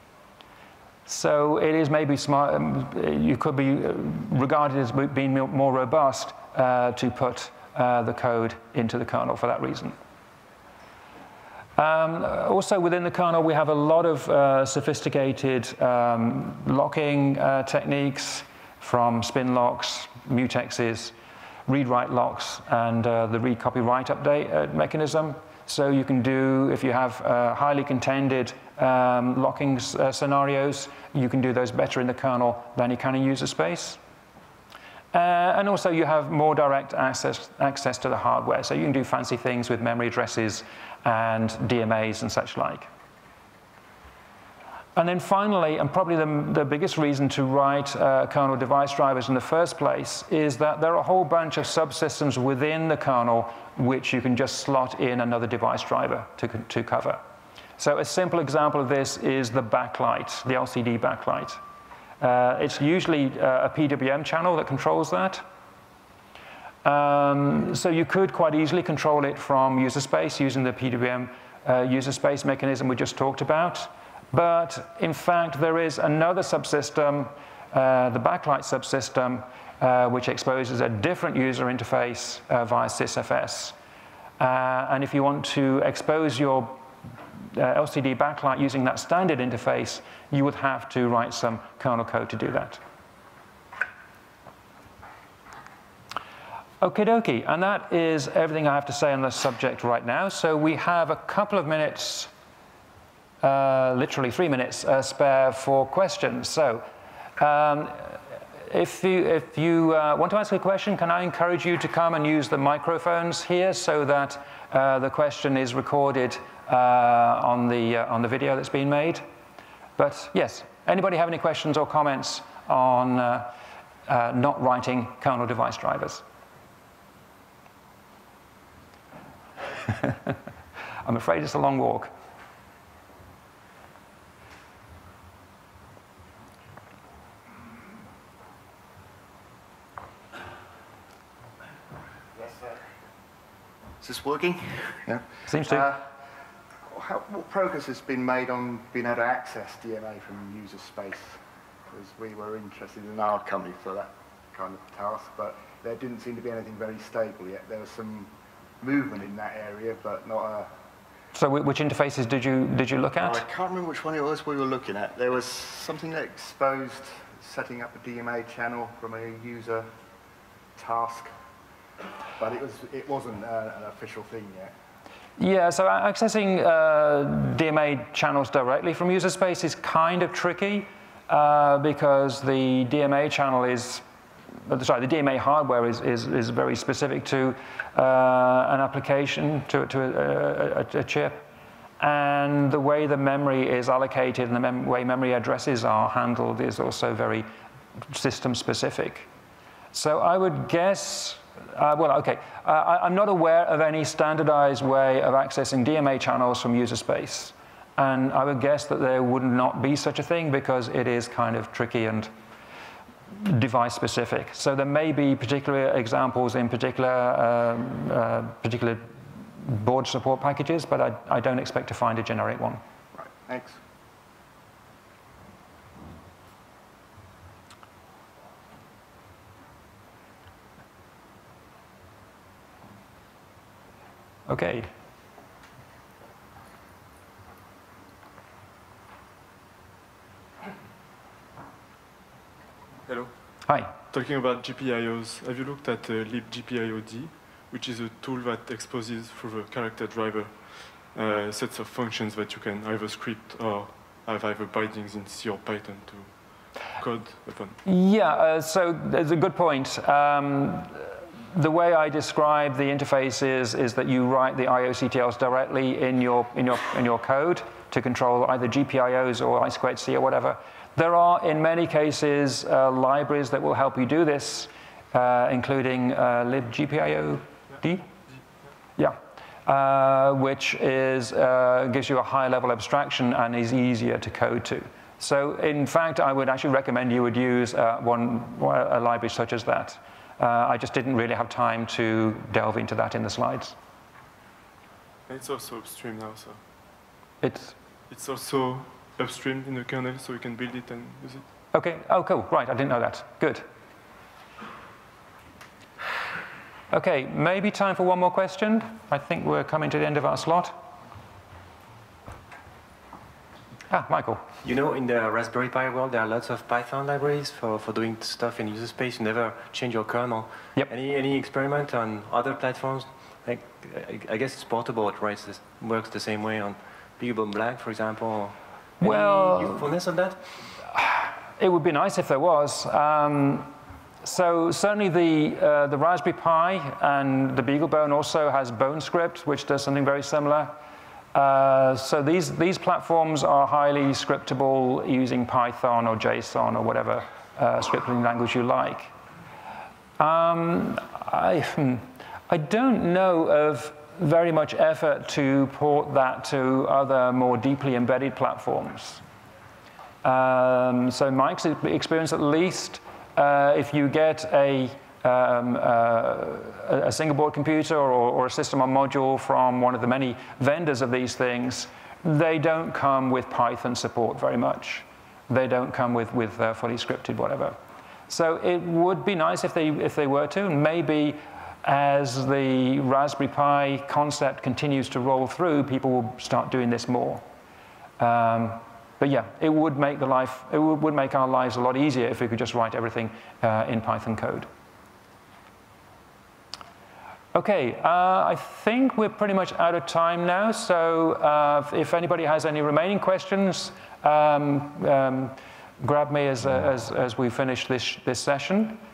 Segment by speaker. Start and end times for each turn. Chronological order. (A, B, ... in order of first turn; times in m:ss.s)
0:01.1-0:10.0 A
0:11.8-0:21.1 A
0:21.7-0:34.0 A
0:35.1-0:42.9 A
0:45.0-0:57.2 A
0:57.8-1:01.6 A
1:02.2-1:05.4 A
1:06.8-1:23.8 A
1:24.4-1:26.8 A
1:27.5-1:32.8 A
1:36.8-1:42.3 A
1:43.4-1:46.9 A
1:47.4-1:59.2 A
2:00.0-2:03.5 A
2:04.1-2:06.2 A
2:09.8-2:10.4 A
2:11.0-2:12.1 A
2:22.3-2:22.9 B
2:24.0-2:24.6 C
2:25.0-2:26.0 B
2:25.5-2:25.9 A
2:26.9-2:31.4 B
2:31.9-2:40.7 B
2:41.4-2:43.4 A
2:43.2-2:49.9 B
2:50.8-2:51.3 B
2:52.4-2:54.7 B
2:55.4-3:04.0 A
3:04.7-3:11.4 A
3:12.0-3:17.5 A
3:18.1-3:19.3 A
3:19.9-3:32.3 A
3:33.3-3:39.1 A
3:39.6-3:42.8 A
3:43.1-3:43.8 B
3:54.5-3:54.9 A
4:03.1-4:03.3 D
4:03.7-4:03.9 A
4:04.1-4:17.8 D
4:17.8-4:38.1 A
4:39.0-4:53.8 A
4:55.3-4:56.6 D
4:57.4-4:57.8 A
4:58.1-5:01.4 D
5:01.7-5:03.6 A
5:06.9-5:10.7 A
5:13.9-5:14.4 A
5:14.6-5:30.5 C
5:29.0-5:29.9 A
5:30.9-5:33.7 A
5:34.2-5:40.8 A
5:41.3-5:49.1 A
5:50.2-5:59.2 A
6:00.2-6:17.8 A
6:18.3-6:27.4 A
6:28.2-6:34.7 A
6:37.5-6:49.0 A